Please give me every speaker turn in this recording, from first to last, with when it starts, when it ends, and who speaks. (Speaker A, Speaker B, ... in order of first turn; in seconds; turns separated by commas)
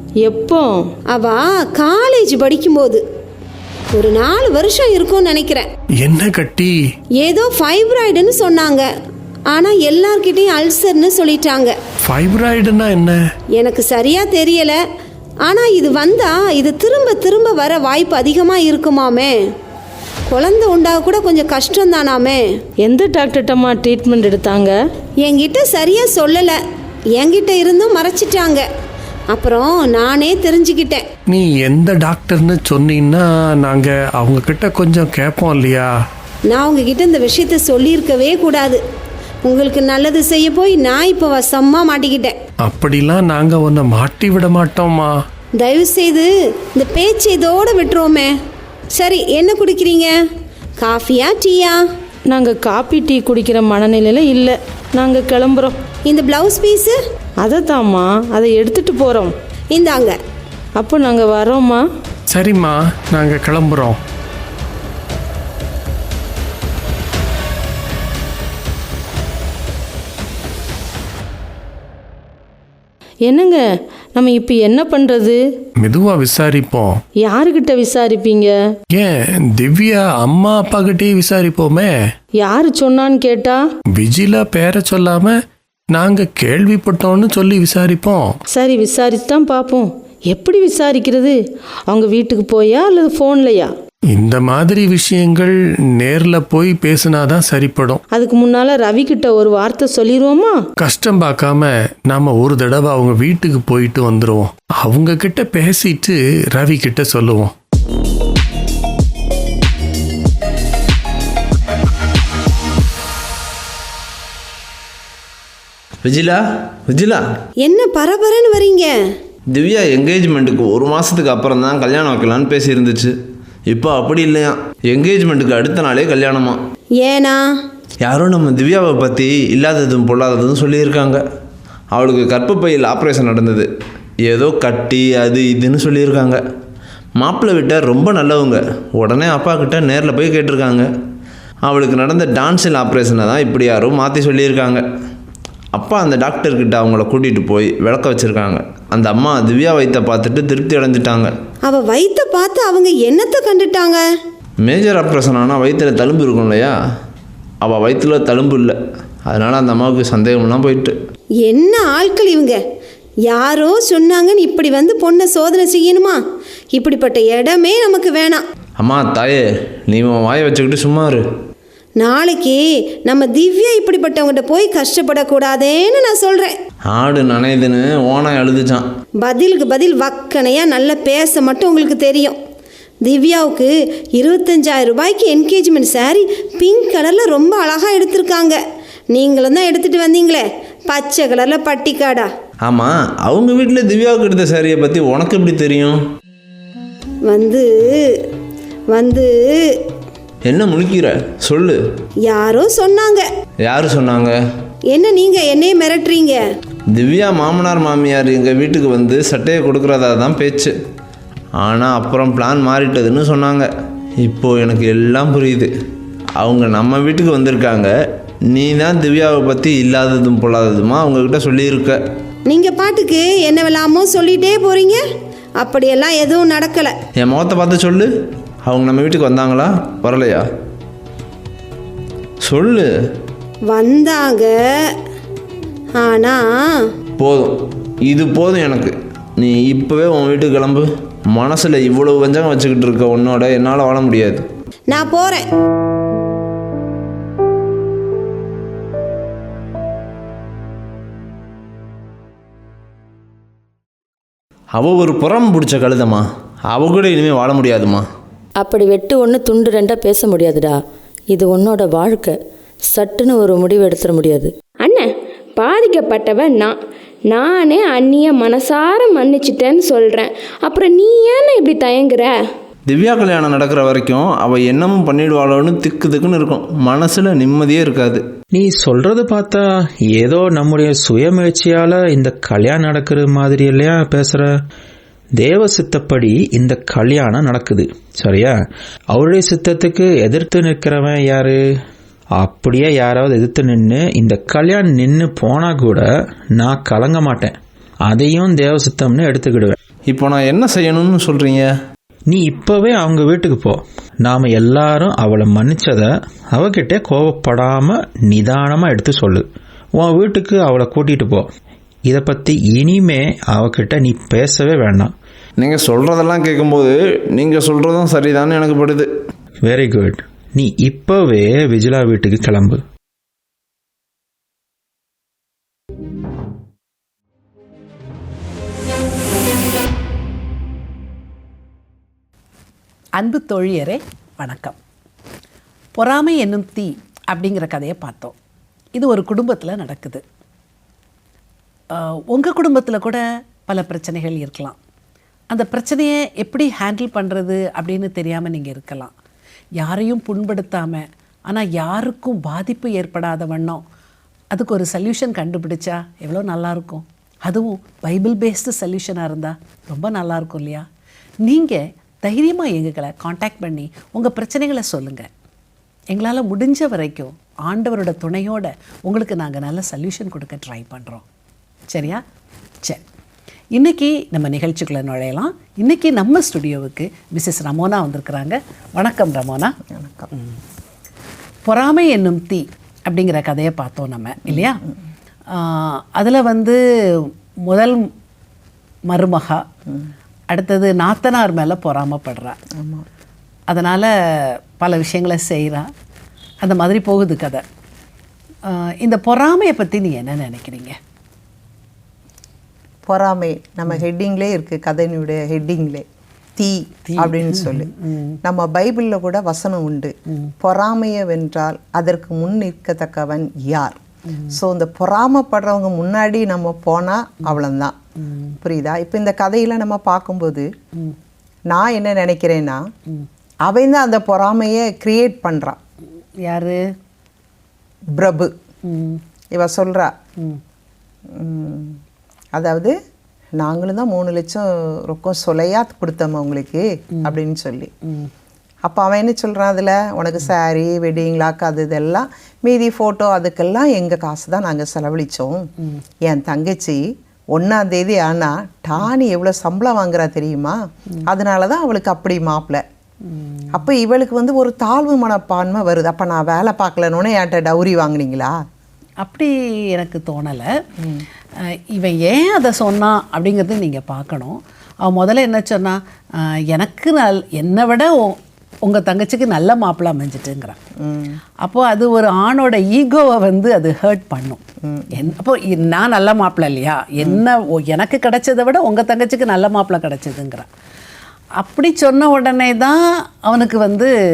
Speaker A: 0.2-0.8, Speaker B: 1.1-3.0, Speaker B: 3.9-5.7, Speaker C: 6.0-6.8, Speaker B: 7.2-8.9, Speaker B: 9.5-11.8, Speaker C: 12.1-13.2, Speaker B: 13.6-14.8, Speaker B: 15.4-19.4, Speaker B: 20.3-22.5, Speaker A: 22.8-24.8, Speaker B: 25.2-26.6, Speaker B: 27.2-28.7, Speaker B: 29.3-31.1, Speaker C: 31.3-35.9, Speaker B: 36.5-38.8, Speaker B: 39.5-42.4, Speaker C: 42.6-45.1, Speaker B: 45.6-48.3, Speaker B: 49.0-50.1, Speaker B: 50.8-51.8, Speaker A: 52.3-55.8, Speaker B: 56.1-57.0, Speaker A: 57.4-59.3, Speaker B: 59.7-60.2, Speaker A: 60.8-61.8, Speaker C: 62.3-64.0, Speaker A: 73.3-73.6, Speaker A: 74.2-75.4, Speaker C: 75.8-77.0, Speaker A: 77.2-78.5, Speaker C: 79.0-81.9, Speaker A: 82.4-83.6, Speaker C: 84.0-85.3, Speaker C: 85.9-88.3, Speaker A: 88.5-93.7, Speaker C: 94.1-98.0, Speaker A: 98.1-100.6, Speaker C: 100.8-107.5, Speaker D: 116.0-117.2, Speaker B: 117.6-119.0, Speaker D: 119.5-123.2, Speaker D: 123.7-126.6, Speaker B: 127.0-127.4, Speaker D: 128.0-131.2, Speaker D: 131.9-133.7, Speaker D: 134.2-136.4, Speaker D: 137.2-140.9, Speaker D: 141.7-144.8, Speaker D: 145.8-151.3, Speaker B: 151.7-154.0, Speaker D: 154.6-156.8, Speaker D: 157.6-158.8, Speaker D: 159.3-160.9, Speaker B: 161.4-162.6, Speaker B: 163.3-166.2, Speaker B: 166.7-168.4, Speaker D: 168.8-171.2, Speaker B: 172.0-176.6, Speaker D: 176.9-178.9, Speaker B: 179.2-182.4, Speaker B: 183.1-188.6, Speaker B: 189.1-192.3, Speaker D: 192.7-196.0, Speaker B: 197.3-198.3, Speaker B: 198.9-199.8, Speaker D: 200.5-201.8, Speaker B: 202.3-203.3, Speaker D: 203.7-204.4, Speaker B: 204.9-206.4, Speaker D: 206.9-210.8, Speaker D: 211.6-213.7, Speaker D: 214.2-215.7, Speaker D: 216.4-217.9, Speaker D: 218.5-222.0, Speaker B: 222.5-225.1, Speaker B: 225.6-226.9, Speaker D: 227.2-228.1, Speaker D: 228.7-230.5, Speaker D: 232.4-232.9, Speaker B: 233.7-235.0, Speaker B: 236.0-236.9, Speaker D: 237.2-244.4, Speaker B: 244.9-245.5, Speaker D: 254.8-258.1, Speaker E: 258.6-260.8, Speaker E: 261.3-262.4, Speaker E: 262.9-264.5, Speaker F: 264.8-266.8, Speaker F: 267.3-272.4, Speaker D: 272.9-278.2, Speaker G: 278.5-284.5, Speaker G: 285.4-288.6, Speaker G: 289.1-291.6, Speaker G: 292.4-299.8, Speaker D: 300.1-301.7, Speaker G: 302.3-311.5, Speaker G: 312.1-315.1, Speaker D: 315.6-319.1, Speaker G: 319.6-322.8, Speaker H: 333.2-334.8, Speaker H: 336.0-338.4, Speaker H: 339.0-340.2, Speaker H: 341.9-344.8, Speaker H: 345.5-349.1, Speaker H: 349.8-353.8, Speaker H: 354.5-360.9, Speaker H: 361.4-365.3, Speaker H: 366.1-371.2, Speaker H: 371.9-372.2, Speaker H: 373.8-379.8, Speaker I: 379.9-380.3, Speaker H: 380.3-380.6, Speaker H: 381.7-384.8, Speaker I: 384.5-385.0, Speaker H: 385.5-388.1, Speaker H: 389.1-389.7, Speaker H: 390.5-392.6, Speaker I: 392.7-393.1, Speaker H: 393.7-395.9, Speaker H: 396.6-397.6, Speaker H: 398.7-401.0, Speaker I: 403.1-407.9, Speaker H: 407.1-408.4, Speaker I: 408.4-414.0, Speaker H: 414.3-414.6, Speaker I: 414.5-418.0, Speaker H: 418.2-418.6, Speaker I: 418.6-420.7, Speaker I: 421.7-422.8, Speaker I: 423.7-425.8, Speaker H: 426.4-426.8, Speaker I: 428.2-428.5, Speaker H: 428.9-429.2, Speaker I: 429.5-430.1, Speaker I: 431.3-432.0, Speaker I: 432.6-432.9, Speaker I: 433.6-437.9, Speaker H: 438.0-438.3, Speaker I: 438.9-445.7, Speaker I: 446.2-452.8, Speaker H: 453.3-453.9, Speaker I: 453.7-458.6, Speaker H: 459.2-460.7, Speaker I: 461.0-461.3, Speaker H: 461.6-470.8, Speaker I: 471.0-471.4, Speaker H: 471.6-474.6, Speaker I: 474.8-475.3, Speaker H: 475.1-480.7, Speaker H: 481.6-484.1